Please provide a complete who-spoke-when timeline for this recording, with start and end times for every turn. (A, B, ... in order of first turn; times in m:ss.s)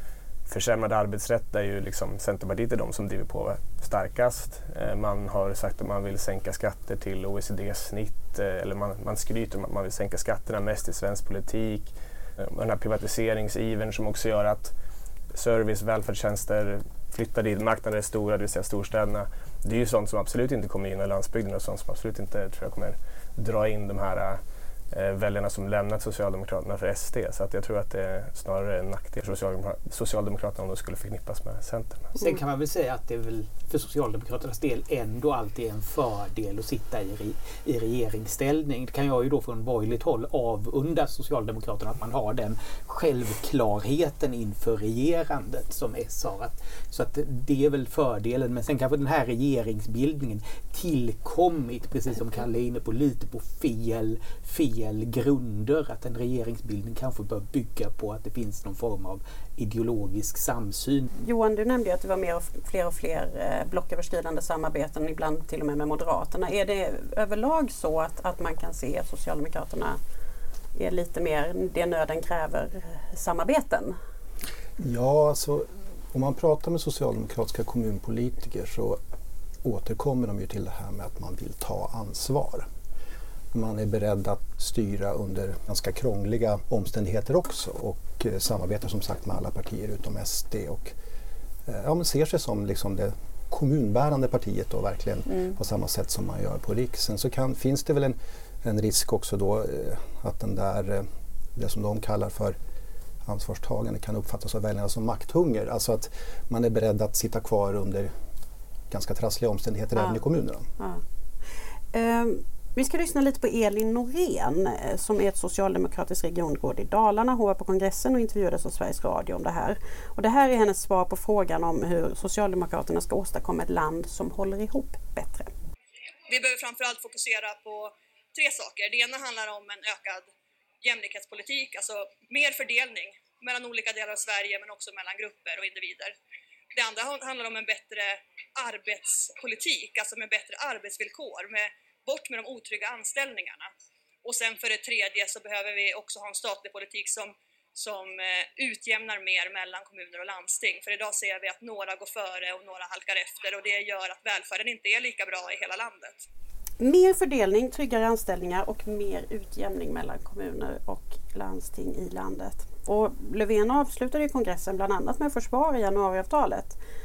0:00.5-0:14.7 A
0:15.3-0:24.4 A
0:24.9-0:32.1 A
0:32.2-1:01.1 B
1:01.2-1:10.0 C
1:10.8-1:14.0 C
1:14.8-1:19.0 D
1:19.6-1:22.7 D
1:23.5-1:30.9 D
1:31.6-1:42.6 D
1:43.2-1:48.1 D
1:48.9-1:50.7 D
1:50.0-1:50.2 C
1:51.9-2:05.5 C
2:06.3-2:10.3 E
2:10.8-2:16.2 E
2:16.7-2:23.7 E
2:24.2-2:36.2 E
2:36.8-2:46.8 C